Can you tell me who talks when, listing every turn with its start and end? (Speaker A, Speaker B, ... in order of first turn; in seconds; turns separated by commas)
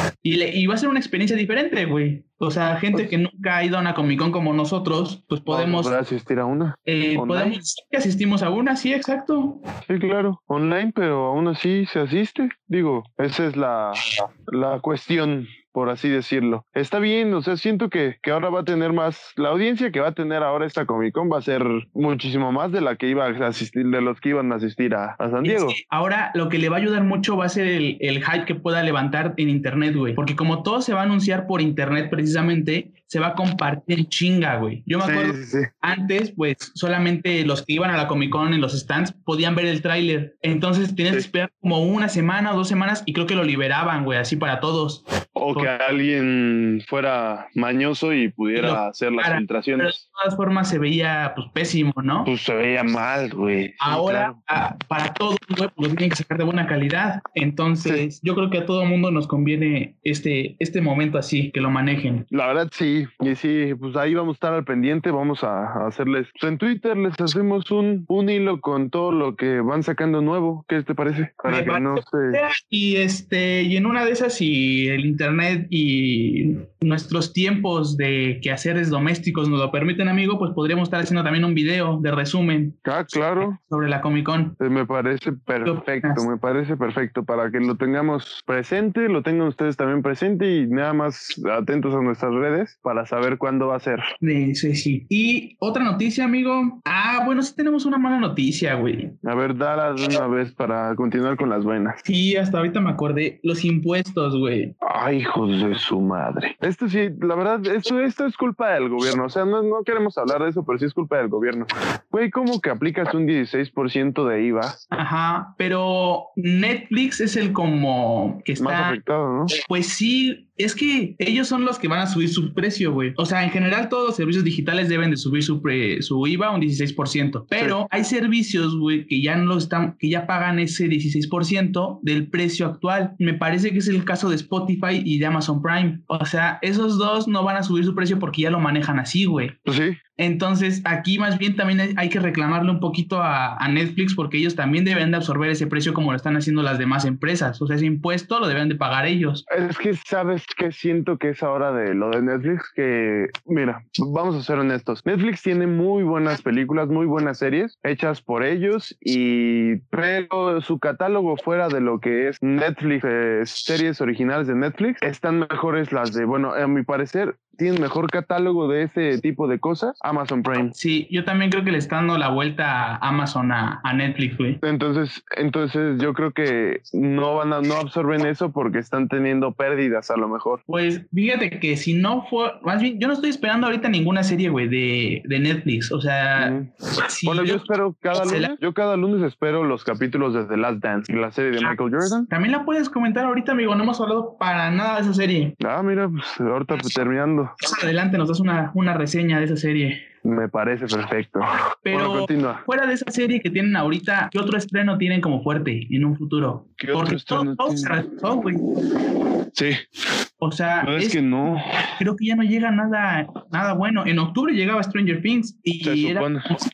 Speaker A: 0.2-5.9, Speaker B: 5.5-7.6, Speaker A: 6.8-9.6, Speaker B: 9.9-25.8, Speaker A: 25.4-45.0, Speaker B: 35.0-35.7, Speaker B: 45.4-50.0, Speaker A: 48.5-52.3, Speaker B: 52.2-54.4, Speaker A: 53.8-62.2, Speaker B: 62.3-72.4, Speaker A: 71.5-82.8, Speaker B: 82.8-83.6, Speaker A: 83.4-84.5, Speaker B: 84.6-94.0, Speaker A: 85.6-86.2, Speaker A: 94.2-99.1, Speaker B: 99.2-102.0, Speaker A: 102.0-104.7, Speaker B: 104.8-114.8, Speaker A: 114.9-119.0, Speaker B: 118.6-119.5, Speaker A: 119.5-139.6, Speaker B: 139.7-140.0, Speaker A: 140.2-149.4, Speaker B: 149.5-170.7, Speaker A: 170.7-174.6, Speaker B: 174.6-180.6, Speaker A: 180.7-188.5, Speaker B: 186.4-186.7, Speaker B: 187.2-192.3, Speaker A: 192.3-195.6, Speaker B: 195.6-197.5, Speaker A: 197.6-200.0, Speaker B: 200.2-202.6, Speaker A: 201.8-208.6, Speaker B: 206.8-208.0, Speaker B: 209.5-209.8, Speaker A: 210.4-211.2, Speaker B: 210.8-211.7, Speaker A: 212.0-216.3, Speaker B: 215.8-216.4